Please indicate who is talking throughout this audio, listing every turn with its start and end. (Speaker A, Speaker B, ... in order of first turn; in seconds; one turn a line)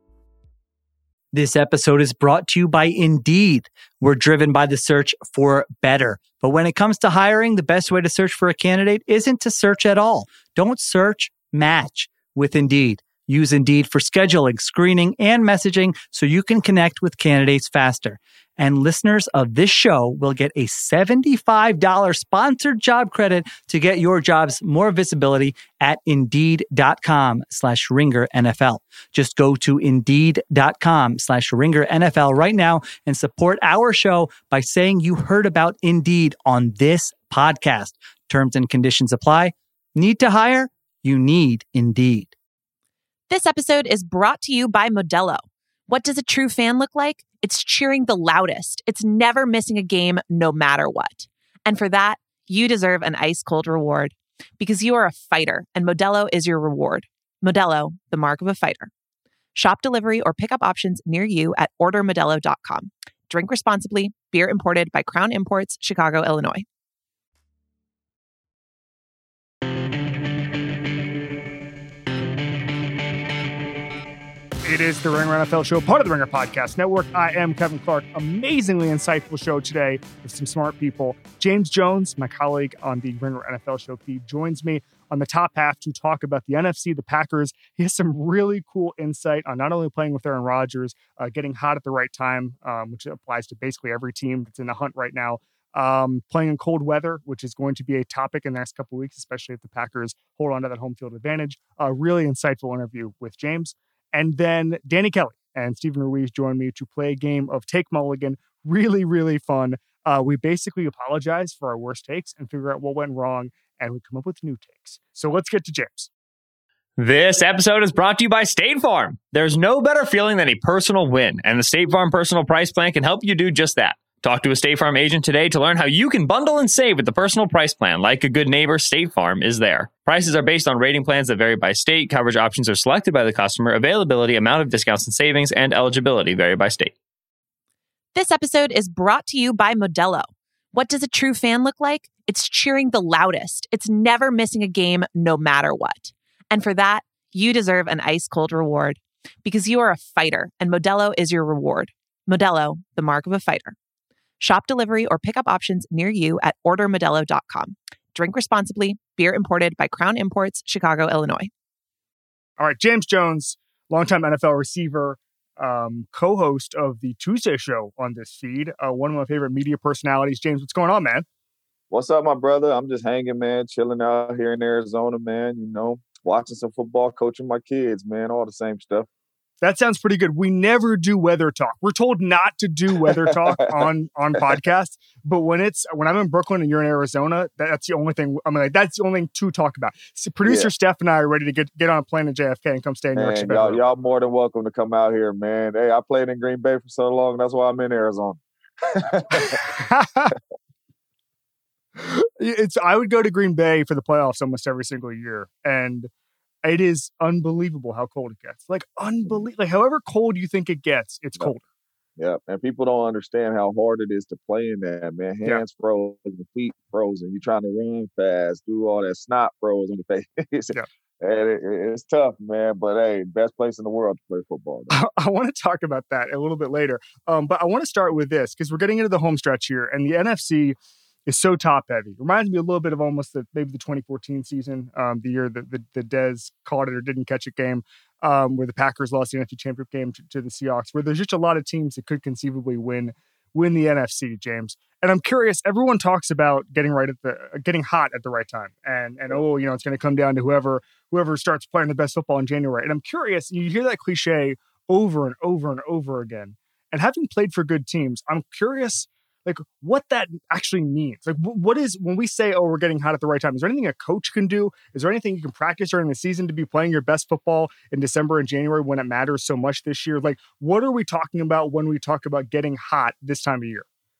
Speaker A: 1.3-42.3
Speaker B: 43.3-58.9
Speaker B: 59.5-66.7
Speaker C: 74.6-116.1
Speaker D: 117.0-136.9
Speaker B: 138.2-153.8
Speaker B: 154.4-161.5
Speaker C: 162.6-171.3
Speaker E: 171.9-179.1
Speaker C: 179.6-193.8
Speaker E: 183.1-183.8
Speaker E: 190.4-190.7
Speaker E: 193.2-199.6
Speaker C: 199.4-200.4
Speaker C: 202.0-206.1
Speaker C: 206.6-211.6
Speaker E: 212.2-224.9
Speaker C: 224.9-273.9